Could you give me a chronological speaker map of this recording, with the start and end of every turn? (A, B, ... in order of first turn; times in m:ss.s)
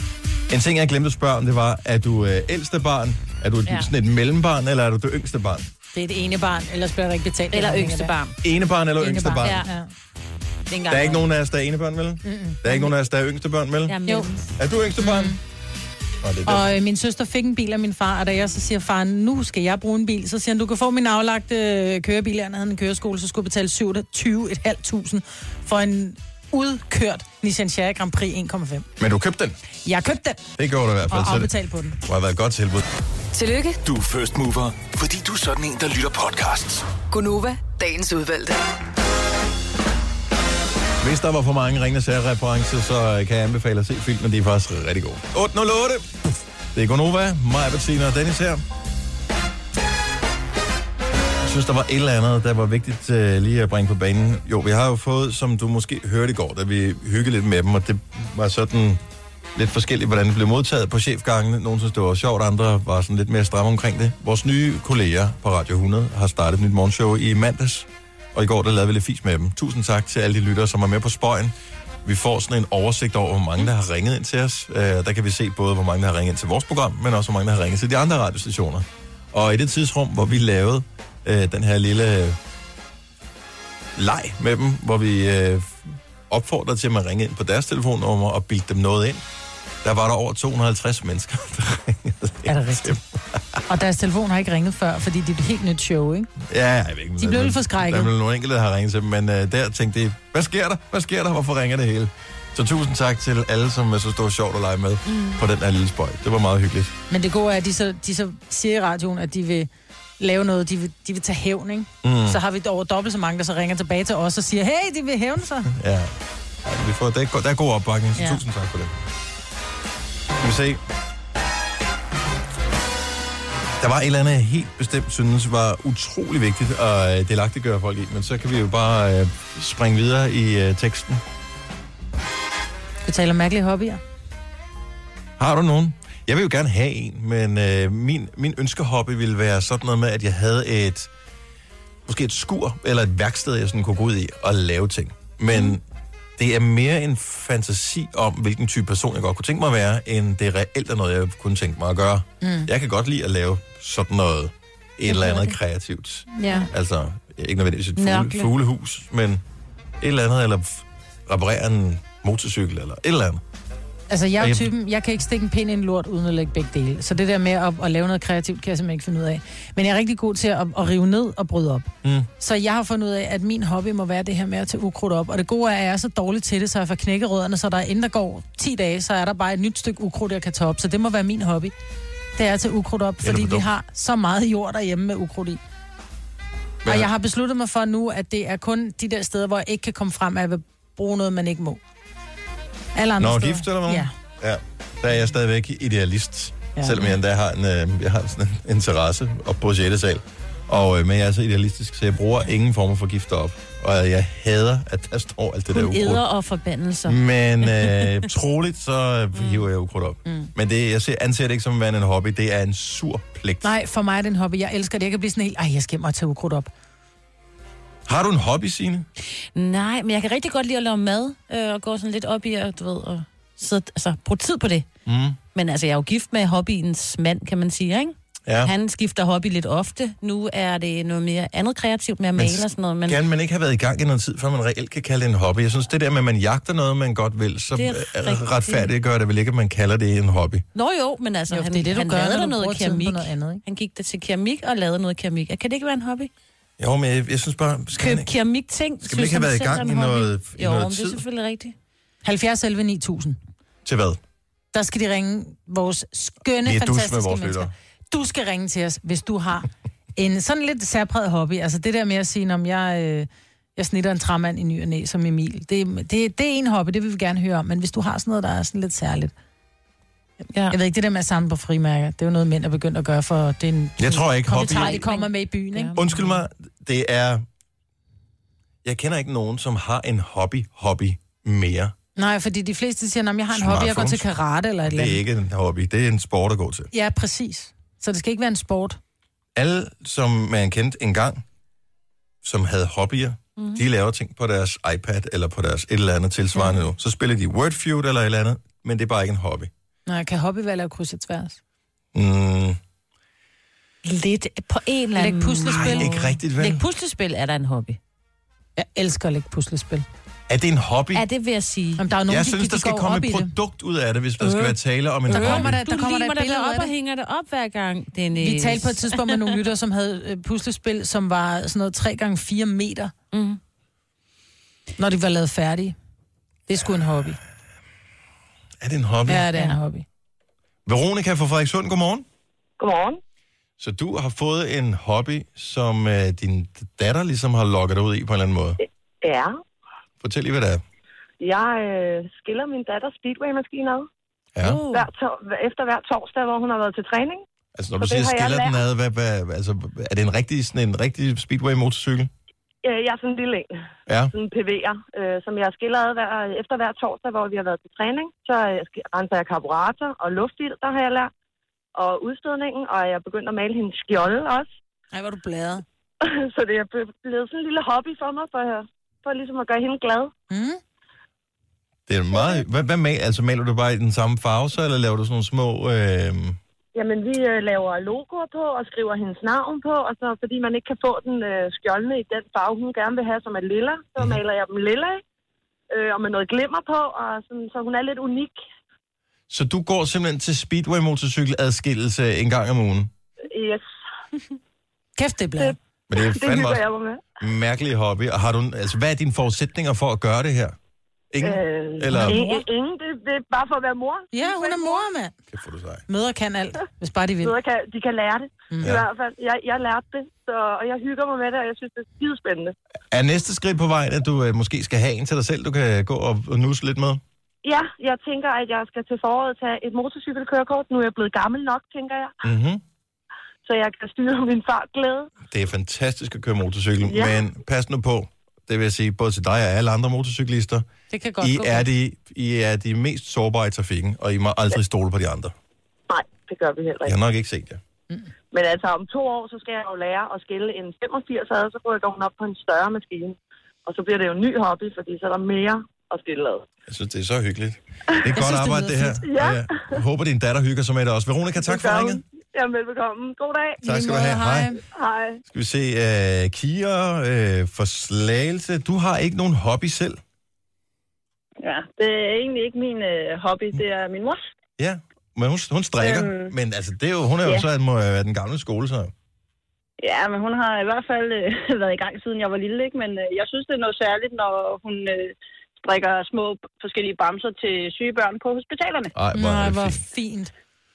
0:00.5-0:05.7 A
0:05.9-0:08.1 B
0:07.5-0:08.4 C
0:08.4-0:09.6 A
0:09.0-0:09.9 B
0:09.4-0:09.7 C
0:10.7-0:11.3 C
0:10.9-0:14.0 A
0:12.2-0:12.6 B
0:13.9-0:14.4 C
0:14.6-0:15.4 A
0:15.0-0:15.4 B
0:16.2-0:16.7 A
0:16.4-0:28.9 B
0:29.0-0:29.6 A
0:29.8-0:30.4 B
0:30.6-0:31.5 A
0:31.1-0:32.0 B
0:32.0-0:32.8 A
0:33.3-0:33.8 D
0:33.8-0:36.9 E
0:37.1-0:38.6 D
0:41.0-0:46.1 A
0:46.7-0:48.6 A
0:51.4-0:59.0 A
0:59.5-1:22.4 A
1:24.0-1:29.2 A
1:29.8-1:33.6 A
1:32.4-1:33.0 B
1:33.7-1:36.3 B
1:36.4-1:46.9 A
1:37.2-1:38.1 B
1:45.1-1:45.4 C
1:47.1-1:49.7 B
1:50.2-1:55.7 B
1:52.0-1:52.4 A
1:55.7-1:56.1 A
1:56.6-1:58.9 A
2:00.4-2:00.8 A
2:03.8-2:11.2 A
2:13.0-2:14.0 B
2:15.4-2:21.1 A
2:22.0-2:25.8 A
2:26.4-2:39.4 A
2:32.4-2:32.7 B
2:35.1-2:35.5 C
2:36.4-2:36.7 B
2:38.0-2:38.5 C
2:40.0-2:43.4 A
2:44.1-3:01.7 B
2:44.4-2:44.7 A
2:52.0-2:52.3 A
3:02.4-3:05.6 B
3:03.2-3:03.7 A
3:06.8-3:07.1 A
3:06.8-3:11.8 B
3:12.9-3:14.1 B
3:13.2-3:26.2 A
3:16.8-3:17.1 B
3:25.7-3:28.1 C
3:27.0-3:33.7 A
3:33.6-3:36.7 B
3:38.0-3:39.1 A
3:39.5-3:44.9 C
3:45.0-3:45.4 A
3:45.5-3:53.2 C
3:48.5-3:48.7 A
3:52.4-4:00.6 A
3:57.7-3:58.9 C
4:00.7-4:06.3 C
4:01.5-4:03.6 B
4:06.8-4:08.3 A
4:08.0-4:11.7 C
4:09.0-4:11.2 A
4:12.2-4:13.4 B
4:13.8-4:14.2 A
4:14.7-4:29.3 B
4:16.6-4:17.7 A
4:30.7-4:36.0 B
4:34.0-4:35.0 A
4:34.6-4:36.3 C
4:36.0-4:37.4 A
4:38.8-4:41.9 A
4:42.2-4:45.2 B
4:43.5-4:44.2 A
4:44.8-4:46.9 A
4:46.9-4:49.0 B
4:49.6-4:51.4 A
4:52.4-4:59.7 A
4:53.6-4:53.8 C
5:00.1-5:01.6 B
5:02.1-5:02.8 A
5:04.0-5:08.0 C
5:05.2-5:06.1 B
5:05.6-5:06.8 A
5:08.8-5:10.0 B
5:10.5-5:11.2 A
5:11.1-5:12.0 C
5:12.0-5:13.5 B
5:12.3-5:15.7 A
5:15.3-5:16.9 B
5:15.3-5:19.4 C
5:18.4-5:23.1 B
5:23.3-5:23.6 C
5:25.0-5:25.9 B
5:26.7-5:27.4 B
5:28.8-5:29.5 A
5:29.3-5:30.0 B
5:30.8-5:32.2 A
5:32.8-5:33.2 F
5:33.8-5:38.8 A
5:38.8-5:39.6 F
5:40.2-5:40.8 A
5:41.4-5:44.1 F
5:44.6-5:44.8 A
5:44.6-5:45.1 C
5:44.9-5:47.4 F
5:47.8-5:52.3 A
5:48.0-5:48.8 F
5:52.8-5:53.8 F
5:54.1-5:54.3 A
5:54.3-6:01.3 F
6:01.9-6:04.7 F
6:05.1-6:05.8 B
6:06.2-6:10.3 F
6:10.5-6:10.8 B
6:12.1-6:16.6 A
6:16.9-6:25.2 F
6:25.9-6:28.5 F
6:29.5-6:33.1 A
6:33.5-6:33.8 F
6:35.2-6:35.8 B
6:35.6-6:37.2 F
6:36.1-6:36.8 A
6:37.4-6:40.8 A
6:41.3-6:42.4 A
6:41.4-6:44.9 F
6:42.0-6:42.6 B
6:44.3-6:45.3 B
6:45.5-6:46.0 A
6:46.1-6:47.6 B
6:47.4-6:52.7 F
6:48.7-6:49.0 B
6:53.1-6:57.2 A
6:57.6-7:02.4 F
7:02.4-7:02.8 A
7:03.6-7:05.3 F
7:05.5-7:10.8 A
7:07.0-7:07.4 F
7:11.1-7:11.9 B
7:11.4-7:15.5 A
7:16.1-7:17.1 F
7:17.0-7:17.8 A
7:18.5-7:26.6 F
7:26.9-7:32.2 A
7:28.3-7:29.2 B
7:29.2-7:29.7 F
7:31.6-7:33.8 F
7:33.8-7:34.8 B
7:33.8-7:34.7 A
7:34.8-7:35.3 F
7:35.5-7:40.2 A
7:41.6-7:44.5 G
7:44.8-7:49.1 A
7:46.0-7:46.5 G
7:50.0-7:59.1 G
7:59.1-8:00.0 A
7:59.3-8:00.5 B